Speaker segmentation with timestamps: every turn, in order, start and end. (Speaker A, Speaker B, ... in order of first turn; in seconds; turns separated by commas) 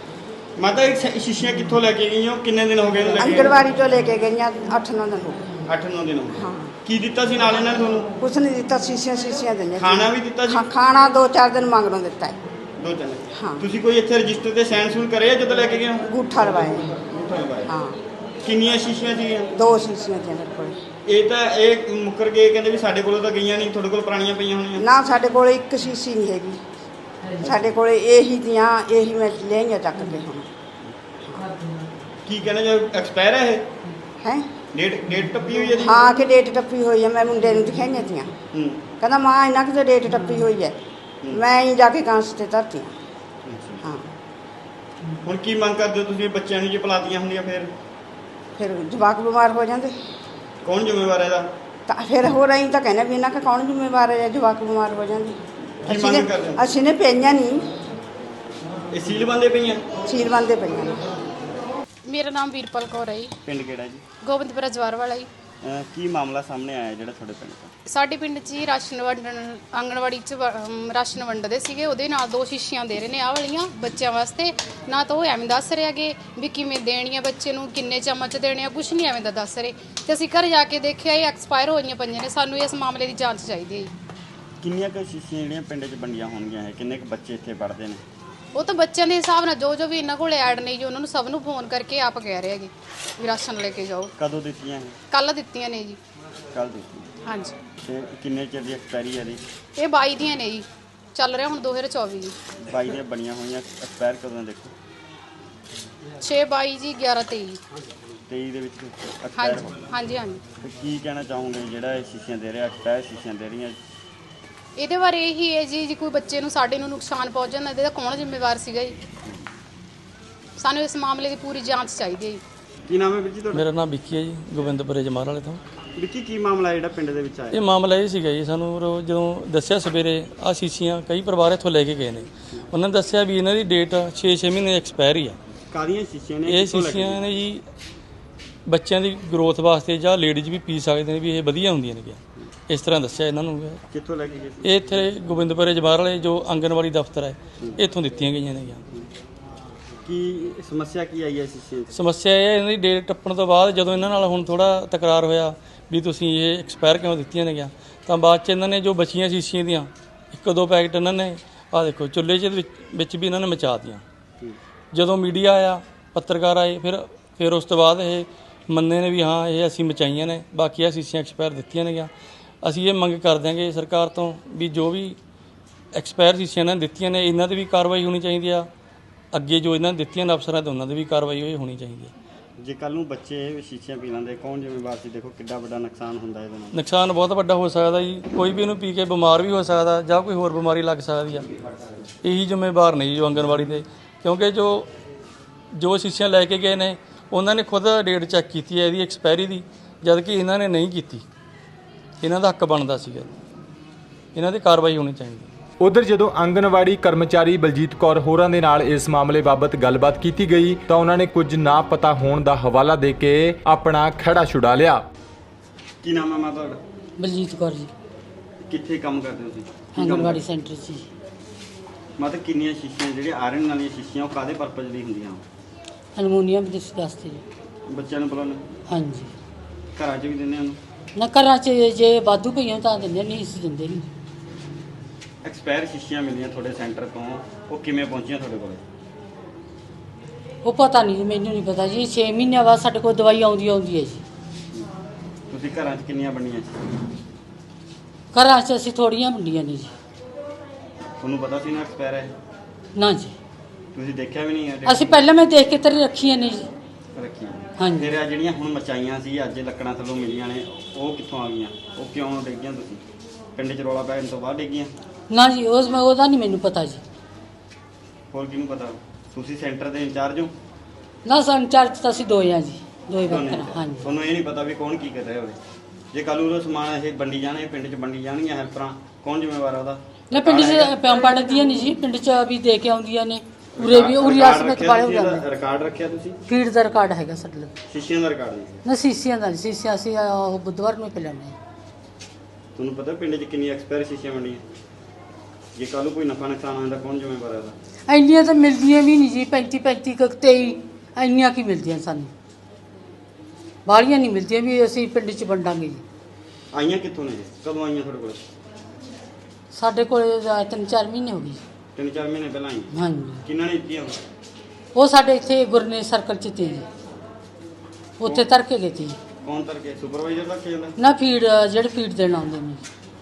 Speaker A: 0.6-3.6, Speaker B: 3.2-5.5, Speaker A: 5.7-8.1, Speaker B: 6.3-6.7, Speaker B: 8.2-12.4, Speaker A: 9.8-10.6, Speaker A: 12.8-16.0, Speaker B: 13.3-13.7, Speaker B: 16.0-16.9, Speaker A: 16.9-17.7, Speaker B: 17.7-18.0, Speaker A: 18.4-19.5, Speaker B: 19.5-20.8, Speaker A: 21.0-24.8, Speaker B: 24.8-26.6, Speaker B: 27.4-30.5, Speaker A: 27.4-27.7, Speaker C: 31.6-31.9, Speaker A: 32.2-33.7, Speaker B: 34.2-34.5, Speaker A: 34.7-36.1, Speaker B: 35.8-38.4, Speaker A: 38.5-38.9, Speaker B: 39.0-40.8, Speaker B: 41.3-42.9, Speaker A: 43.5-43.8, Speaker B: 43.8-44.1, Speaker A: 45.2-47.7, Speaker B: 48.6-50.0, Speaker A: 50.6-51.5, Speaker B: 51.9-57.6, Speaker A: 55.8-56.6, Speaker A: 58.9-59.8, Speaker B: 60.0-61.0, Speaker D: 62.1-63.3, Speaker A: 63.4-64.0, Speaker D: 64.2-65.3, Speaker A: 65.6-67.7, Speaker D: 67.9-83.9, Speaker A: 84.6-88.0, Speaker D: 88.5-94.1, Speaker A: 94.2-95.0, Speaker D: 95.1-96.0, Speaker A: 96.5-97.1, Speaker D: 97.2-97.5, Speaker A: 97.8-99.4, Speaker D: 99.8-102.3, Speaker A: 102.7-104.7, Speaker D: 106.2-107.6, Speaker A: 108.3-109.8, Speaker D: 109.4-110.4, Speaker A: 110.6-113.8, Speaker D: 114.8-119.0, Speaker D: 120.6-122.4, Speaker A: 122.9-123.7, Speaker E: 123.5-125.6, Speaker A: 126.0-127.6, Speaker E: 127.5-135.4, Speaker A: 135.7-137.3, Speaker E: 136.4-137.6, Speaker E: 138.7-143.8, Speaker A: 143.9-145.1, Speaker E: 144.6-148.8, Speaker A: 150.1-151.9, Speaker E: 151.9-164.0, Speaker E: 164.9-172.1, Speaker E: 172.6-175.2, Speaker E: 175.9-178.7, Speaker E: 179.3-182.1, Speaker A: 182.6-186.8, Speaker E: 186.7-191.5, Speaker E: 192.2-194.9, Speaker E: 195.7-201.2, Speaker E: 202.2-203.3, Speaker E: 204.3-205.5, Speaker F: 205.8-215.0, Speaker A: 216.0-216.8, Speaker C: 217.2-217.9, Speaker A: 218.7-220.4, Speaker C: 219.9-221.1, Speaker A: 222.2-225.4, Speaker C: 226.1-227.4, Speaker A: 227.9-228.6, Speaker C: 228.9-229.3, Speaker A: 229.9-230.8, Speaker C: 231.1-234.1, Speaker A: 235.4-238.8, Speaker C: 240.6-244.2, Speaker A: 245.5-246.8, Speaker C: 248.3-249.9, Speaker A: 251.2-252.3, Speaker C: 252.9-253.3, Speaker A: 253.9-255.3, Speaker C: 254.8-256.7, Speaker A: 257.1-263.0, Speaker C: 257.8-258.1, Speaker A: 263.6-264.9, Speaker C: 265.3-267.0, Speaker A: 268.3-270.5, Speaker C: 271.2-274.1, Speaker A: 273.2-275.6, Speaker A: 276.1-280.9, Speaker C: 280.3-285.4, Speaker A: 283.8-286.4, Speaker C: 286.5-287.7, Speaker A: 287.9-288.8, Speaker C: 288.8-291.6, Speaker A: 292.8-294.6, Speaker A: 295.8-297.8, Speaker C: 298.1-302.3, Speaker C: 303.9-306.0, Speaker A: 306.7-308.4, Speaker C: 309.7-311.6, Speaker A: 311.9-312.9, Speaker C: 312.9-313.4, Speaker A: 313.4-314.2, Speaker C: 314.9-316.9, Speaker C: 318.2-319.2, Speaker A: 319.4-320.9, Speaker C: 321.0-322.8